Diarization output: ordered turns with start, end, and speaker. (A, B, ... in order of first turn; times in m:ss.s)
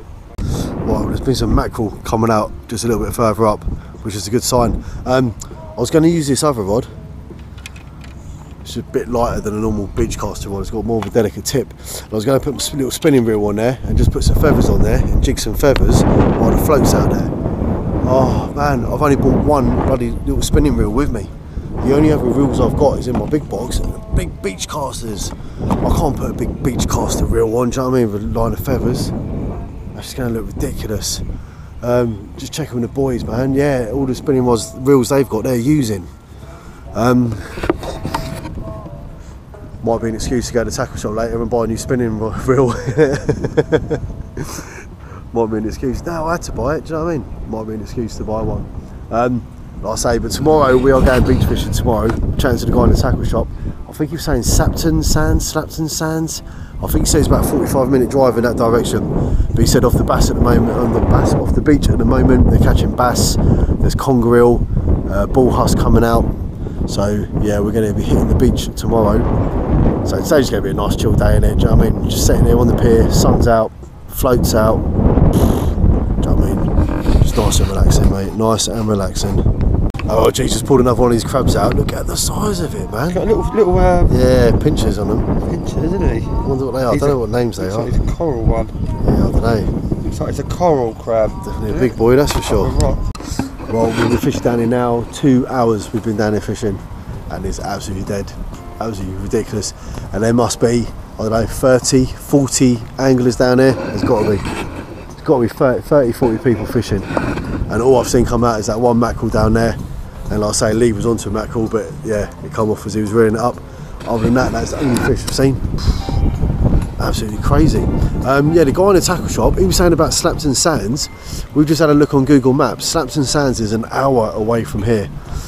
0:00.8-0:06.9 A
0:08.6-0:17.3 A
0:18.0-0:29.1 A
0:29.9-0:31.2 A
0:31.8-0:36.1 A
0:36.9-0:37.6 A
0:39.8-1:06.3 A
1:06.9-1:09.3 A
1:10.0-1:14.8 A
1:16.2-1:19.5 A
1:20.1-1:23.2 A
1:23.1-1:24.1 B
1:24.1-1:25.3 A
1:25.4-1:28.8 B
1:26.4-1:28.0 A
1:29.0-1:29.7 A
1:30.0-1:33.0 B
1:31.4-1:32.8 A
1:33.4-1:44.4 A
1:45.2-1:47.1 A
1:47.7-1:49.8 A
1:50.3-1:55.7 A
1:57.0-2:05.1 A